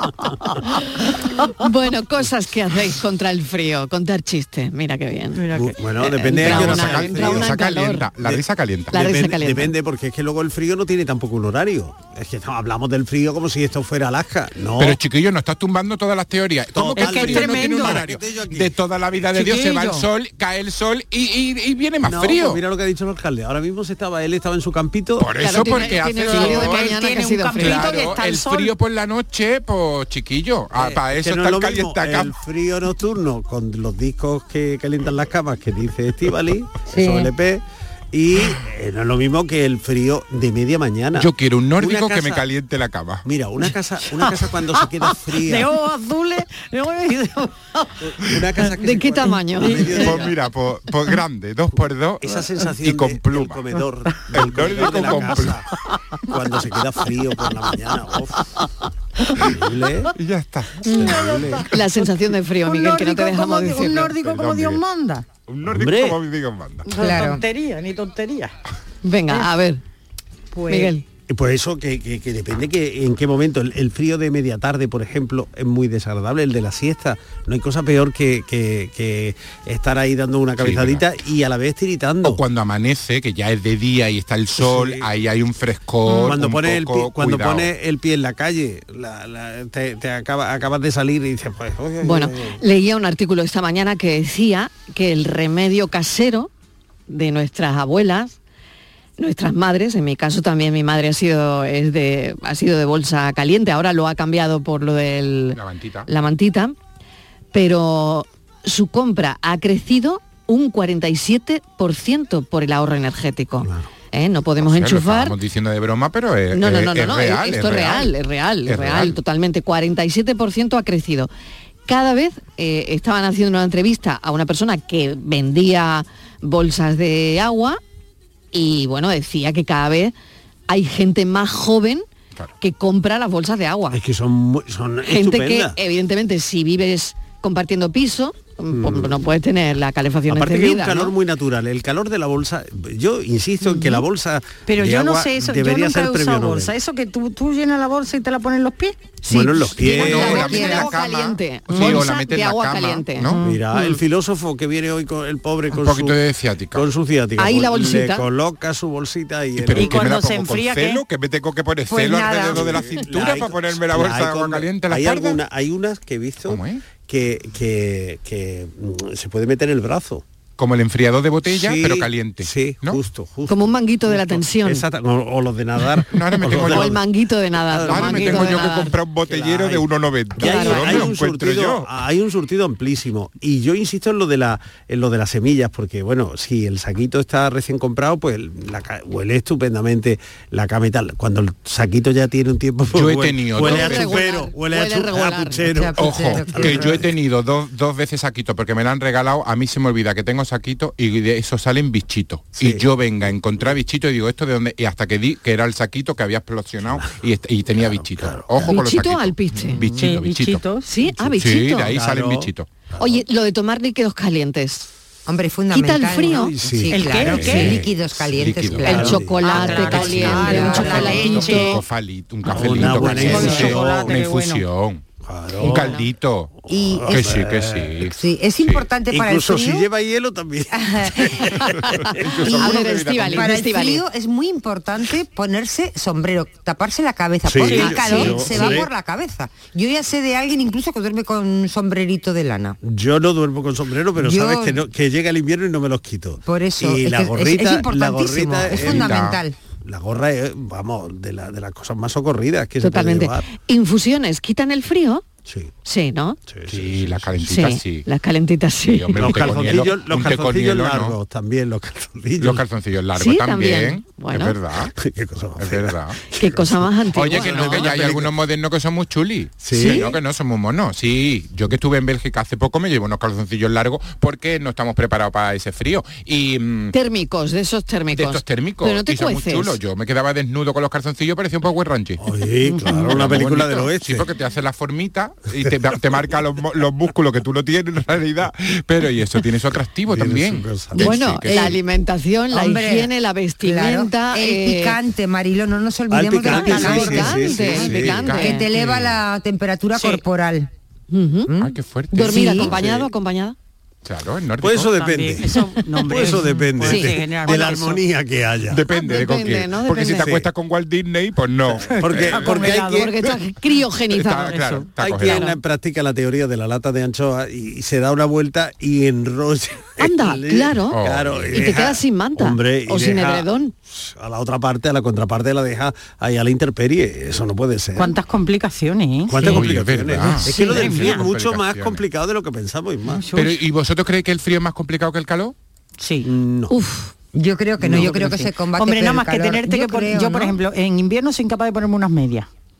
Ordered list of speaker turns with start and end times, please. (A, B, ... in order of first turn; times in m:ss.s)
0:00.7-0:05.4 A
0:05.4-0:05.8 B
0:05.5-0:07.5 C
0:06.0-0:08.1 A
0:06.4-0:09.0 D
0:08.2-0:15.0 C
0:08.9-0:09.7 A
0:14.8-0:22.6 D
0:16.7-0:18.8 C
0:16.9-0:18.0 B
0:19.3-0:20.0 B
0:22.0-0:25.4 C
0:25.2-0:26.9 D
0:25.4-0:28.0 A
0:26.3-0:28.7 B
0:27.6-0:32.3 D
0:30.7-0:42.4 C
0:41.2-0:43.2 D
0:43.2-0:45.7 C
0:44.1-0:47.9 B
0:48.0-0:50.3 C
0:48.7-0:50.1 A
0:49.8-0:53.6 D
0:51.7-0:55.6 C
0:54.3-0:55.6 D
0:56.3-0:58.5 C
0:59.4-1:00.1 C
1:00.1-1:01.6 D
1:00.9-1:01.6 B
1:00.9-1:01.7 C
1:01.7-1:04.1 A
1:02.6-1:05.3 B
1:04.1-1:04.8 D
1:05.5-1:06.8 D
1:05.7-1:06.2 C
1:06.8-1:08.5 B
1:07.0-1:07.4 E
1:09.0-1:09.8 A
1:10.5-1:10.9 B
1:10.7-1:11.0 A
1:11.3-1:22.4 C
1:20.6-1:21.0 D
1:22.2-1:27.7 D
1:24.6-1:25.1 C
1:26.0-1:26.3 A
1:26.2-1:32.6 C
1:32.0-1:36.5 A
1:37.1-1:38.4 A
1:39.2-1:46.7 A
1:45.5-1:46.1 D
1:47.5-1:55.4 A
1:53.6-1:53.9 C
1:54.6-1:58.1 D
1:56.5-2:01.3 A
1:58.6-1:59.2 D
2:01.9-2:07.8 A
2:08.5-2:10.1 A
2:10.7-2:12.0 A
2:12.6-2:14.0 A
2:13.9-2:15.8 C
2:15.0-2:21.1 A
2:18.7-2:19.1 C
2:20.3-2:26.7 C
2:23.6-2:24.0 A
2:24.6-2:29.2 B
2:29.2-2:33.9 A
2:29.3-2:30.6 C
2:29.9-2:33.4 D
2:30.0-2:30.8 B
2:30.3-2:30.7 E
2:31.8-2:32.0 B
2:33.3-2:33.6 B
2:33.4-2:36.2 C
2:35.7-2:36.8 D
2:36.7-2:40.2 C
2:37.4-2:38.2 A
2:39.6-2:45.4 D
2:39.7-2:41.0 B
2:41.9-2:42.8 E
2:42.3-2:50.2 C
2:46.4-2:46.9 D
2:50.6-2:53.0 D
2:51.4-2:57.0 C
2:53.5-2:54.8 A
2:56.1-2:56.9 D
2:56.6-2:58.9 A
2:57.6-3:17.0 C
2:57.8-3:01.9 D
3:00.4-3:01.1 A
3:12.9-3:14.2 D
3:13.6-3:15.7 A
3:15.7-3:17.0 E
3:16.0-3:30.6 D
3:22.6-3:23.7 C
3:26.9-3:27.2 C
3:27.7-3:28.7 C
3:28.6-3:29.8 A
3:29.9-3:30.9 B
3:30.9-3:31.9 A
3:31.4-3:32.7 D
3:31.8-3:33.2 C
3:33.0-3:34.9 A
3:35.2-3:41.5 E
3:35.7-3:36.5 A
3:36.3-3:37.4 C
3:36.9-3:37.8 B
3:37.3-3:39.0 D
3:38.8-3:41.8 A
3:38.8-3:40.5 C
3:39.4-3:41.8 B
3:40.6-3:45.0 D
3:42.5-3:44.2 C
3:42.7-3:44.6 B
3:45.2-3:48.1 C
3:45.6-3:46.5 D
3:45.7-3:46.0 A
3:46.7-3:47.4 E
3:47.1-3:48.9 D
3:48.1-3:49.9 E
3:49.1-3:51.7 C
3:50.7-3:51.6 E
3:51.8-3:54.0 A
3:52.0-3:53.6 D
3:52.4-4:02.8 E
3:57.4-3:58.9 C
3:57.6-3:58.8 A
4:02.8-4:13.4 C
4:04.2-4:04.8 E
4:06.4-4:09.5 E
4:08.7-4:09.4 D
4:12.8-4:15.2 A
4:15.4-4:15.7 C
4:15.8-4:16.4 A
4:16.5-4:17.6 C
4:16.6-4:18.1 D
4:17.5-4:19.4 A
4:18.9-4:21.2 D
4:19.1-4:22.6 C
4:22.4-4:24.9 D
4:23.2-4:24.6 A
4:24.9-4:28.4 C
4:25.6-4:26.2 D
4:26.4-4:27.9 A
4:27.1-4:36.9 D
4:29.6-4:30.2 C
4:29.7-4:30.1 A
4:36.9-4:39.8 A
4:38.1-4:42.2 D
4:42.2-4:44.3 C
4:42.8-4:51.8 D
4:50.1-4:51.2 C
4:51.0-4:55.0 A
4:52.5-4:53.1 E
4:53.6-5:00.7 E
4:56.1-4:58.3 C
4:56.4-4:58.7 A
4:56.6-4:57.0 B
4:57.7-4:59.2 D
5:00.0-5:00.2 B
5:01.1-5:01.5 A
5:01.5-5:02.7 E
5:01.6-5:02.9 D
5:02.1-5:03.5 A
5:02.6-5:03.1 C
5:04.0-5:05.1 D
5:04.6-5:08.8 C
5:05.1-5:08.0 B
5:08.7-5:12.8 D
5:08.9-5:10.3 A
5:10.2-5:10.5 C
5:11.7-5:13.1 C
5:11.9-5:13.1 B
5:12.7-5:15.6 A
5:14.1-5:15.5 D
5:15.0-5:28.1 C
5:20.0-5:21.0 A
5:20.9-5:21.8 D
5:21.5-5:23.7 A
5:28.0-5:29.6 B
5:29.3-5:33.2 C
5:29.4-5:32.0 D
5:30.4-5:31.3 B
5:33.1-5:33.6 B
5:33.3-5:35.5 D
5:36.0-5:36.3 B
5:36.2-5:36.7 C
5:36.7-5:37.1 A
5:37.3-5:40.6 E
5:37.8-5:42.5 B